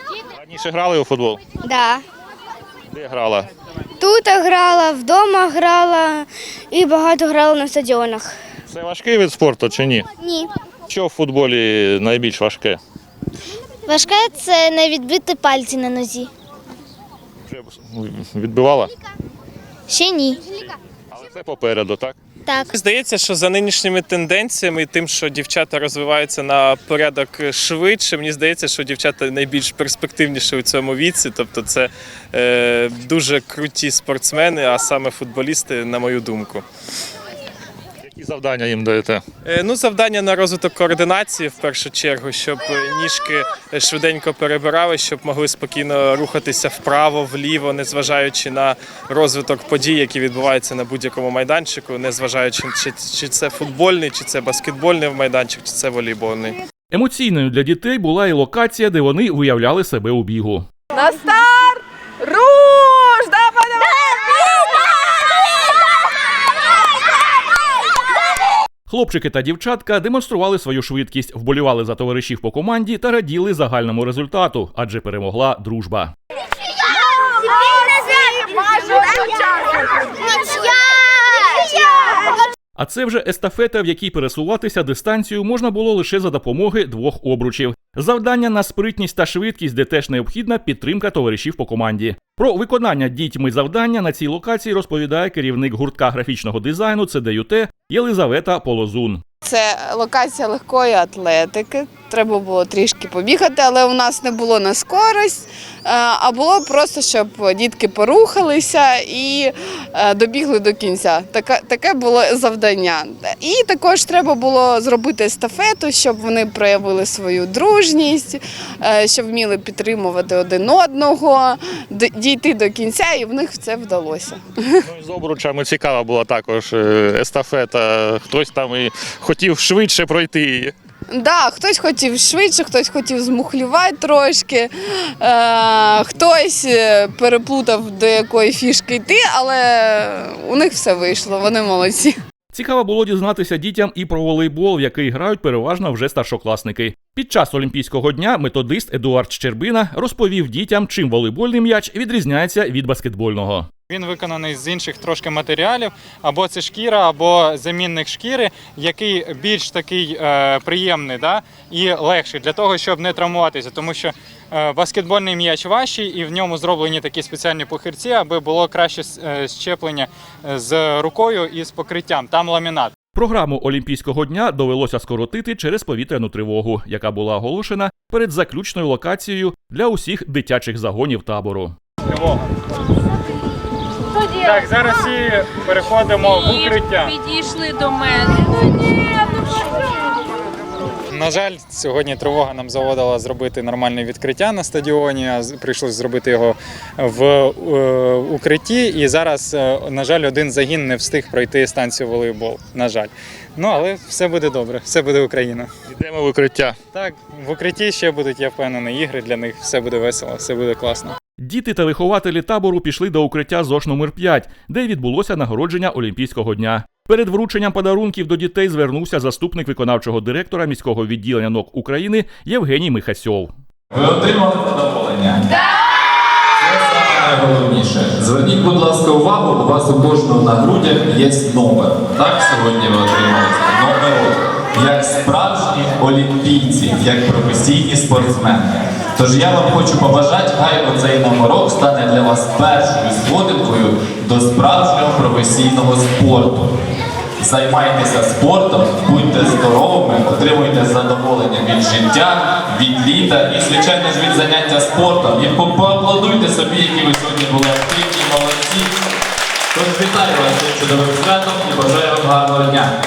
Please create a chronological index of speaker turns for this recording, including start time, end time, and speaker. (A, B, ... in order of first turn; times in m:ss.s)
0:00.3-0:01.4 A
0:01.6-0:02.0 B
0:02.9-0:03.5 A
0:04.0-0:08.3 B
0:08.7-0:10.1 A
0:10.2-0:10.5 B
0:10.9-0:12.8 A
0:13.9-0:16.3 B
0:17.5-0:18.9 A
0:19.9-0:20.4 B
0:21.1-0:22.2 A
0:22.7-0:36.6 C
0:38.0-0:39.2 A
0:39.4-0:56.6 C
0:56.9-1:00.7 D
1:00.9-1:04.9 E
1:08.9-1:16.1 D
1:22.8-1:39.2 D
1:39.4-2:04.4 E
2:04.8-2:10.7 A
2:11.1-2:22.1 E
2:22.5-2:33.7 D
2:33.9-2:52.9 F
2:53.2-3:01.7 D
3:02.1-3:02.4 F
3:04.4-3:07.2 F
3:11.1-3:25.7 F
3:25.9-3:26.8 A
3:26.9-3:31.2 F
3:31.4-3:43.5 D
3:43.9-3:45.5 G
3:46.6-4:06.7 G
4:07.4-4:18.9 G
4:19.7-4:22.9 G